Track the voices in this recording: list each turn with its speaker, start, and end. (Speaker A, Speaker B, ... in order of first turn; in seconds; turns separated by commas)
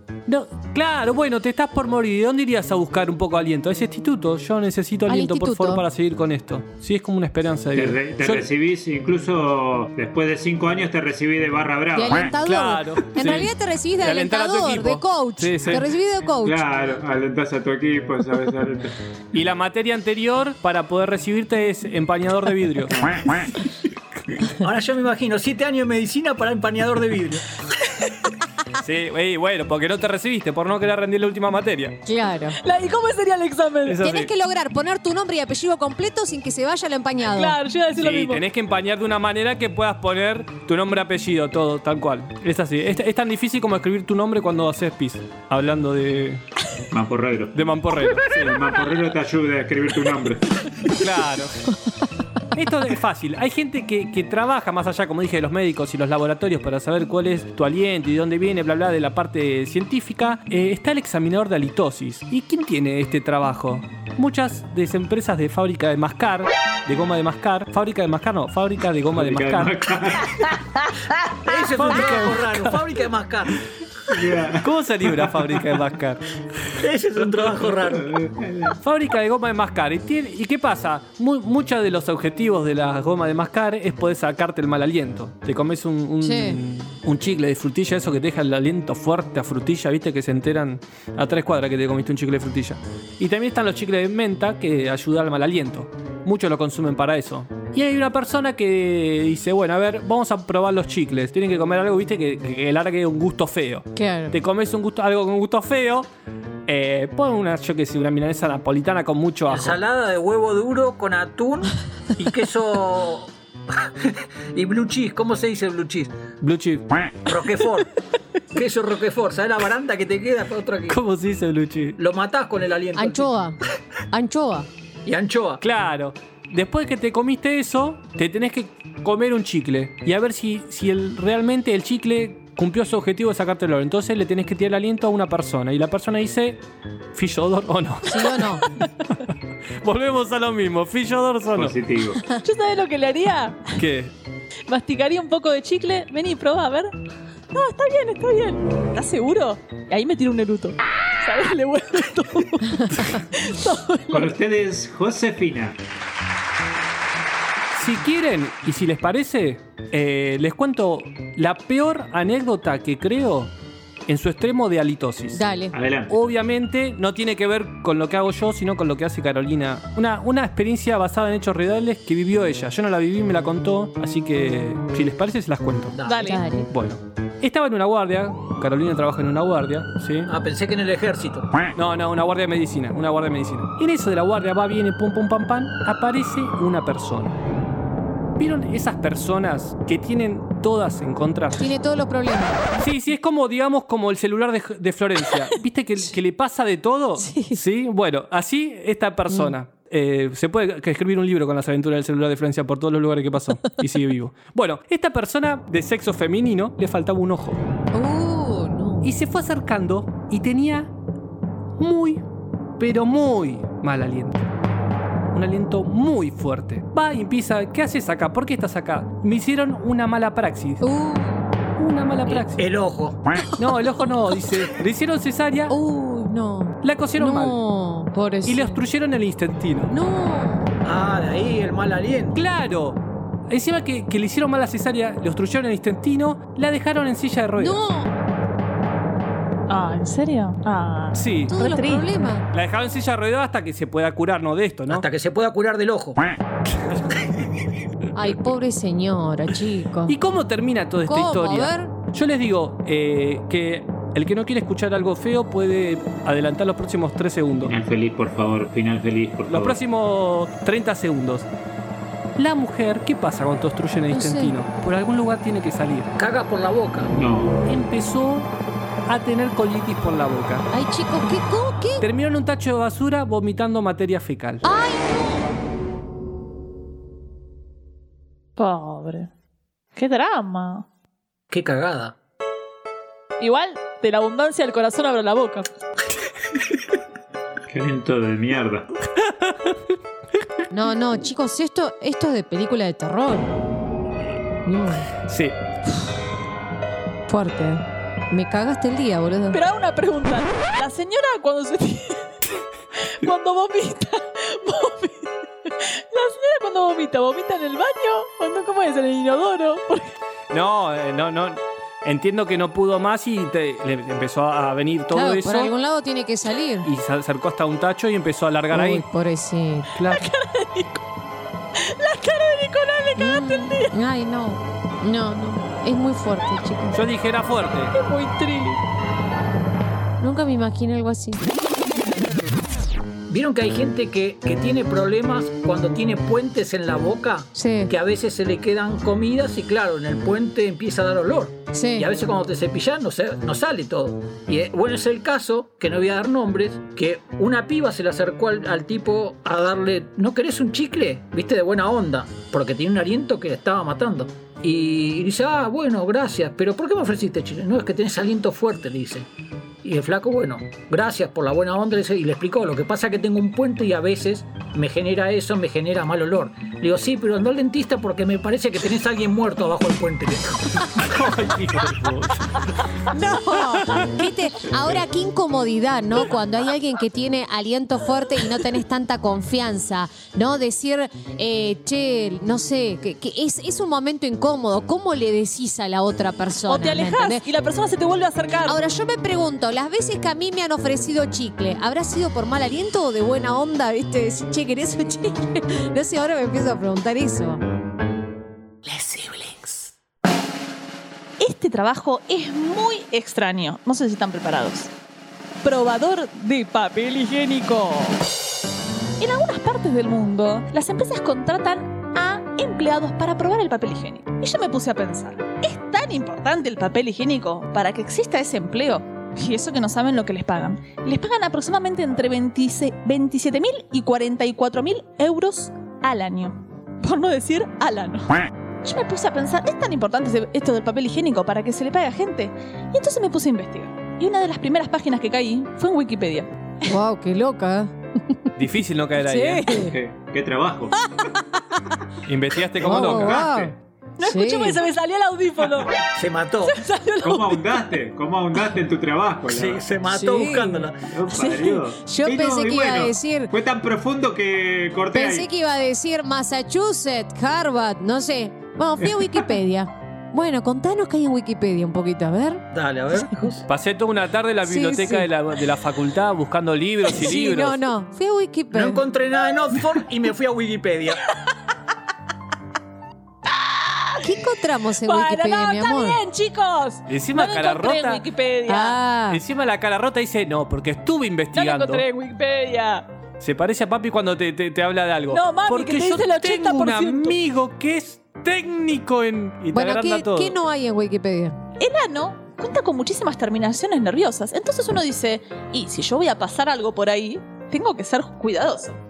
Speaker A: 0.3-8.5, Speaker B: 5.1-5.8, Speaker C: 7.8-12.3, Speaker B: 11.9-16.6, Speaker A: 12.4-15.9, Speaker C: 16.4-19.0, Speaker A: 19.3-23.1, Speaker D: 24.6-27.4, Speaker A: 28.8-32.0, Speaker B: 32.0-32.6, Speaker E: 32.6-34.0, Speaker A: 33.9-34.3, Speaker B: 34.0-37.6, Speaker E: 37.3-38.4, Speaker A: 38.0-46.4, Speaker C: 46.9-47.6, Speaker A: 47.5-48.6, Speaker C: 48.2-50.9, Speaker A: 50.9-51.6, Speaker A: 52.5-69.8, Speaker C: 69.1-70.6, Speaker D: 71.3-73.6, Speaker A: 71.7-72.8, Speaker C: 74.1-75.6, Speaker A: 74.6-76.7, Speaker D: 76.7-78.2, Speaker C: 77.4-78.8, Speaker A: 78.8-106.1, Speaker B: 86.2-86.6, Speaker B: 104.0-104.4, Speaker A: 106.7-109.8, Speaker D: 109.5-116.2, Speaker A: 116.4-117.2, Speaker D: 117.3-117.9, Speaker D: 118.5-121.0, Speaker A: 120.9-122.0, Speaker D: 122.0-123.3, Speaker B: 123.0-123.6, Speaker B: 124.1-124.7, Speaker D: 125.0-125.6, Speaker A: 125.6-136.6, Speaker A: 137.1-138.5, Speaker B: 138.1-138.6, Speaker A: 139.8-141.8, Speaker C: 141.6-142.2, Speaker E: 142.4-143.8, Speaker A: 143.8-144.1, Speaker E: 144.7-146.9, Speaker E: 147.5-154.3, Speaker C: 154.1-155.8, Speaker A: 157.7-163.5, Speaker A: 164.1-165.4, Speaker B: 165.3-165.7, Speaker C: 165.7-166.1, Speaker A: 166.1-176.0, Speaker D: 175.9-176.3, Speaker E: 176.1-176.4, Speaker B: 176.1-176.7, Speaker A: 176.7-180.3, Speaker D: 180.3-181.5, Speaker A: 181.8-187.4, Speaker A: 188.4-191.7, Speaker B: 191.6-192.7, Speaker A: 192.8-207.6, Speaker B: 197.2-197.6, Speaker B: 207.9-209.1, Speaker A: 209.0-210.9, Speaker A: 211.8-212.2, Speaker A: 212.8-214.5, Speaker A: 215.3-220.8, Speaker B: 220.8-221.5, Speaker A: 221.8-222.6, Speaker D: 222.3-223.2, Speaker A: 223.6-225.8, Speaker B: 225.7-228.8, Speaker A: 226.8-227.6, Speaker A: 228.4-229.9, Speaker B: 229.9-230.7, Speaker D: 230.8-232.4, Speaker A: 232.3-237.8, Speaker B: 237.6-238.2, Speaker E: 239.7-242.1, Speaker A: 241.1-241.6, Speaker B: 241.5-242.5, Speaker A: 242.5-245.1, Speaker D: 244.9-246.3, Speaker B: 248.1-250.2, Speaker A: 250.1-257.7, Speaker B: 251.1-251.9, Speaker C: 257.6-259.8, Speaker A: 259.5-261.5, Speaker A: 262.4-266.1, Speaker B: 264.1-264.5, Speaker D: 266.2-267.1, Speaker C: 267.1-267.6, Speaker A: 267.7-268.5, Speaker A: 269.1-270.7, Speaker B: 270.7-272.1, Speaker A: 272.0-274.6, Speaker B: 274.6-275.4, Speaker E: 278.6-279.3, Speaker E: 280.0-280.9, Speaker D: 281.5-282.2, Speaker E: 283.4-285.7, Speaker C: 287.7-288.9, Speaker A: 289.2-289.8, Speaker B: 290.7-293.5, Speaker B: 294.6-295.1, Speaker A: 295.2-295.6, Speaker B: 297.3-299.6, Speaker E: 299.5-302.4, Speaker E: 303.0-310.1, Speaker A: 310.5-315.7, Speaker B: 315.1-316.9, Speaker A: 316.8-319.0, Speaker B: 318.7-319.9, Speaker A: 319.9-320.3, Speaker E: 320.1-321.0, Speaker E: 321.8-323.9, Speaker B: 323.2-327.0, Speaker A: 326.9-328.0, Speaker E: 327.9-328.8, Speaker B: 330.2-331.4, Speaker D: 333.3-359.3, Speaker B: 337.6-337.9, Speaker B: 341.7-342.1, Speaker D: 359.8-370.9, Speaker A: 371.0-372.6, Speaker B: 373.1-387.4, Speaker E: 386.7-388.8, Speaker B: 388.7-397.6, Speaker E: 398.9-399.8, Speaker E: 401.4-404.9, Speaker E: 405.6-408.2, Speaker E: 409.2-436.9, Speaker B: 436.9-438.4, Speaker A: 438.6-439.8, Speaker B: 439.2-439.9, Speaker C: 439.8-441.0, Speaker A: 442.3-443.5, Speaker B: 442.8-444.8, Speaker C: 442.9-443.7, Speaker E: 444.2-445.9, Speaker D: 446.1-446.8, Speaker E: 446.6-447.7, Speaker C: 447.2-449.9, Speaker D: 449.5-451.0, Speaker B: 450.1-450.9, Speaker C: 451.1-455.5, Speaker E: 451.3-451.8, Speaker B: 451.4-453.5, Speaker B: 455.1-462.6, Speaker D: 462.7-463.6, Speaker A: 463.7-467.8, Speaker B: 464.6-465.3, Speaker B: 467.1-469.0, Speaker D: 468.7-471.2, Speaker E: 473.6-474.3, Speaker B: 474.2-476.2, Speaker E: 475.0-479.0, Speaker A: 477.1-478.2, Speaker B: 478.7-479.4, Speaker A: 479.3-482.1, Speaker E: 481.5-483.1, Speaker A: 483.4-490.6, Speaker E: 485.3-487.4, Speaker B: 489.7-491.6, Speaker E: 491.8-499.0